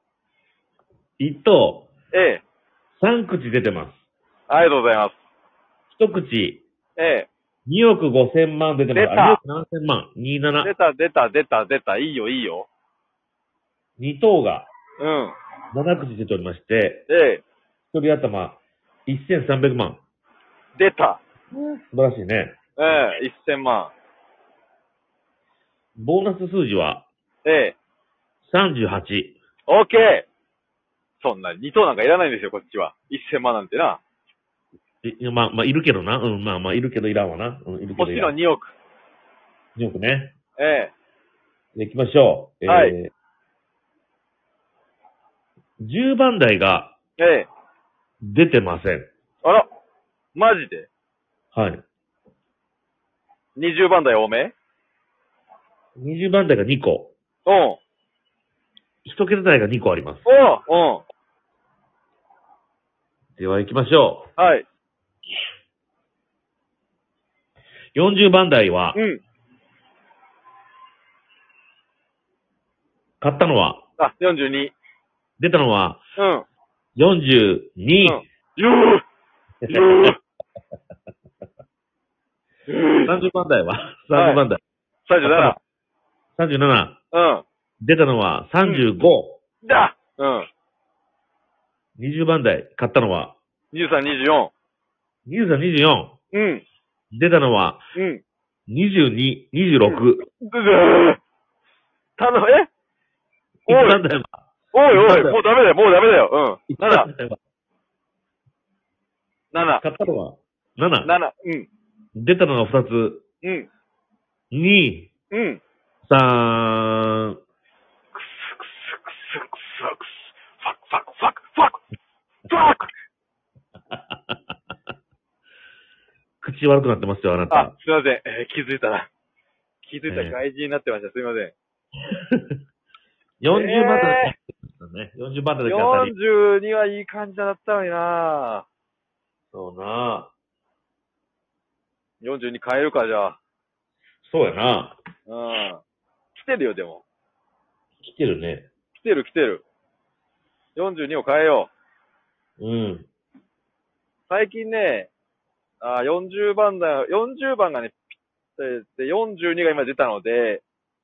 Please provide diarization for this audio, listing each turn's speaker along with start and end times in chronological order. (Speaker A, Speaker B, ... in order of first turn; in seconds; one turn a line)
Speaker A: 1.2-1.9
Speaker B: 2.1-2.4
Speaker A: 3.0-4.0
Speaker B: 4.5-5.2
Speaker A: 5.9-6.6
Speaker B: 7.0-7.3
Speaker A: 7.7-10.7
Speaker B: 8.9-9.4
Speaker B: 10.6-12.7
Speaker A: 14.0-14.7
Speaker B: 15.0-15.3
Speaker A: 15.7-17.1
Speaker B: 17.1-17.4
Speaker A: 17.9-20.0
Speaker B: 20.8-21.2
Speaker A: 21.5-22.6
Speaker B: 22.8-23.9
Speaker A: 26.0-27.1
Speaker B: 27.4-27.8
Speaker A: 28.4-29.4
Speaker B: 29.7-30.3
Speaker B: 31.2-34.0
Speaker A: 35.0-38.3
Speaker B: 38.0-38.8
Speaker A: 39.8-40.4
Speaker B: 40.6-40.9
Speaker A: 41.8-43.1
Speaker B: 42.7-43.0
Speaker A: 45.8-47.0
Speaker B: 47.2-47.5
Speaker A: 48.2-49.1
Speaker B: 50.4-50.9
Speaker A: 51.5-51.8
Speaker B: 53.6-54.5
Speaker A: 56.0-57.1
Speaker B: 57.5-57.8
Speaker A: 59.0-60.3
Speaker B: 60.2-61.0
Speaker A: 63.4-64.3
Speaker B: 64.4-64.7
Speaker A: 68.0-69.0
Speaker B: 68.9-69.2
Speaker A: 73.2-73.8
Speaker B: 74.0-74.8
Speaker A: 75.4-76.0
Speaker B: 76.2-76.5
Speaker A: 77.0-78.2
Speaker B: 78.0-79.0
Speaker A: 79.6-80.2
Speaker B: 79.7-80.2
Speaker B: 82.7-83.1
Speaker A: 83.0-84.6
Speaker B: 84.1-84.4
Speaker B: 85.1-85.6
Speaker A: 85.2-85.6
Speaker A: 86.4-87.0
Speaker B: 87.1-87.4
Speaker A: 87.8-89.4
Speaker B: 89.6-90.5
Speaker A: 92.0-93.4
Speaker B: 93.7-94.5
Speaker A: 95.3-96.2
Speaker B: 96.3-96.6
Speaker A: 97.1-97.9
Speaker B: 97.9-98.2
Speaker A: 98.7-100.3
Speaker B: 99.8-101.2
Speaker B: 102.2-102.7
Speaker A: 103.7-105.4
Speaker B: 103.7-104.0
Speaker B: 104.7-107.1
Speaker A: 106.7-107.4
Speaker B: 109.5-109.8
Speaker A: 109.8-111.1
Speaker B: 111.0-111.7
Speaker A: 112.2-113.2
Speaker B: 113.4-113.7
Speaker A: 114.5-115.1
Speaker B: 115.3-115.6
Speaker A: 116.1-117.4
Speaker B: 118.1-121.8
Speaker B: 122.5-122.9
Speaker A: 123.9-124.4
Speaker A: 126.4-127.7
Speaker B: 127.5-129.1
Speaker B: 129.8-131.6
Speaker A: 130.1-130.4
Speaker A: 132.3-132.6
Speaker A: 133.4-136.1
Speaker B: 133.5-134.3
Speaker B: 135.7-138.7
Speaker A: 139.5-140.3
Speaker B: 142.2-143.4
Speaker A: 144.2-145.0
Speaker B: 145.3-145.8
Speaker B: 146.3-147.0
Speaker A: 148.0-148.7
Speaker B: 148.9-149.6
Speaker B: 150.8-151.7
Speaker A: 152.6-153.1
Speaker B: 154.3-155.1
Speaker B: 155.8-160.6